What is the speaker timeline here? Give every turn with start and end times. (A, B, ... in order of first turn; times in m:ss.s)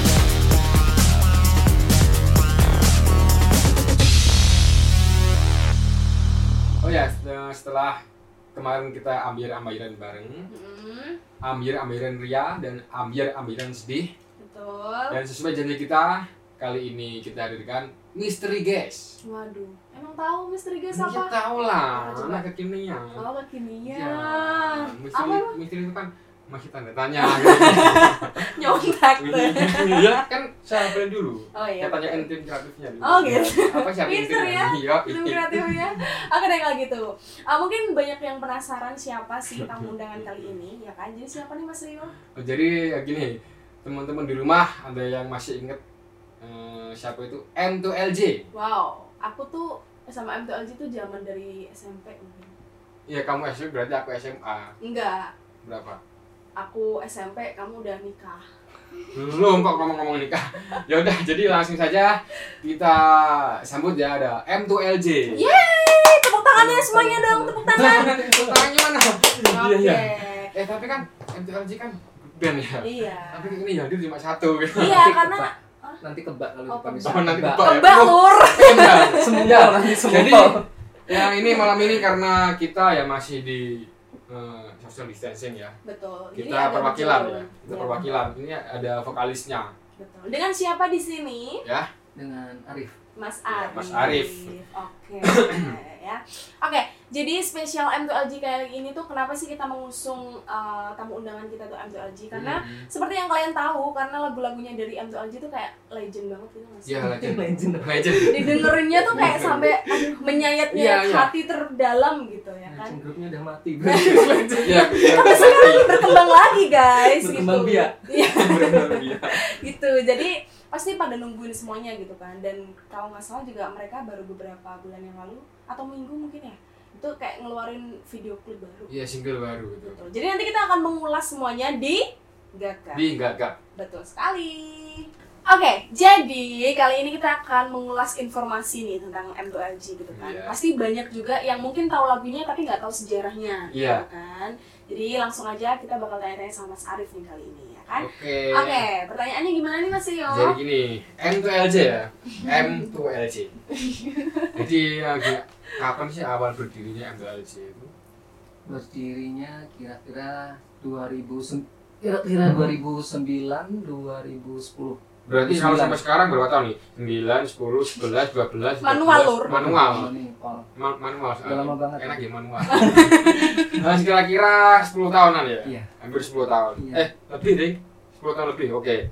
0:06.8-0:08.0 A
0:08.5-0:10.5 A
0:10.5-0:11.2 B
0:11.4-0:14.1 A
0:14.4-0:15.2 B
0:15.1-0:19.1 A
0:19.2-0:21.3 B
0:20.9-0:23.2 A
0:21.9-0:22.4 B
0:23.2-0:25.6 B
0:23.9-0:35.9 A
0:27.2-0:30.2 B
0:31.5-0:32.3 B
0:33.0-0:42.1 B
0:39.6-0:40.5 A
0:42.3-0:45.8 A
0:46.4-0:48.5 A
0:48.5-0:52.5 B
0:53.1-0:54.7 A
0:54.8-0:55.3 B
0:55.6-0:56.0 A
0:56.6-0:58.4 B
0:59.0-0:59.5 B
0:59.1-1:05.4 A
1:05.3-1:08.2 B
1:06.5-1:08.6 C
1:07.7-1:15.1 A
1:09.5-1:10.5 B
1:12.8-1:13.6 B
1:14.7-1:16.0 B
1:14.8-1:17.8 C
1:16.7-1:19.6 B
1:17.0-1:25.8 A
1:19.1-1:20.6 C
1:21.1-1:22.0 B
1:25.8-1:28.0 B
1:26.3-1:29.7 A
1:30.0-1:31.6 B
1:32.2-1:33.0 C
1:33.2-1:47.2 B
1:33.5-1:34.6 A
1:35.2-1:35.8 A
1:42.3-1:42.9 A
1:46.8-1:49.7 A
1:47.0-1:49.7 C
1:48.2-1:53.0 B
1:50.7-1:51.3 A
1:52.7-1:55.5 C
1:53.8-2:08.9 B
1:54.6-1:56.2 A
1:57.0-1:58.0 C
1:58.3-1:59.5 A
2:08.9-2:10.0 A
2:09.8-2:12.0 B
2:12.5-2:13.0 B
2:12.9-2:13.6 A
2:13.8-2:30.6 B
2:20.1-2:20.5 A
2:23.7-2:24.0 A
2:28.0-2:28.8 A
2:30.3-2:33.5 A
2:32.3-2:32.8 B
2:33.7-2:34.6 B
2:34.5-2:37.9 A
2:38.7-2:46.0 C
2:45.3-2:50.1 A
2:48.8-2:49.6 B
2:49.5-2:50.7 C
2:50.8-2:59.0 A
2:51.4-2:52.2 C
2:52.7-2:53.7 B
2:55.6-2:55.9 C
2:56.8-2:57.1 C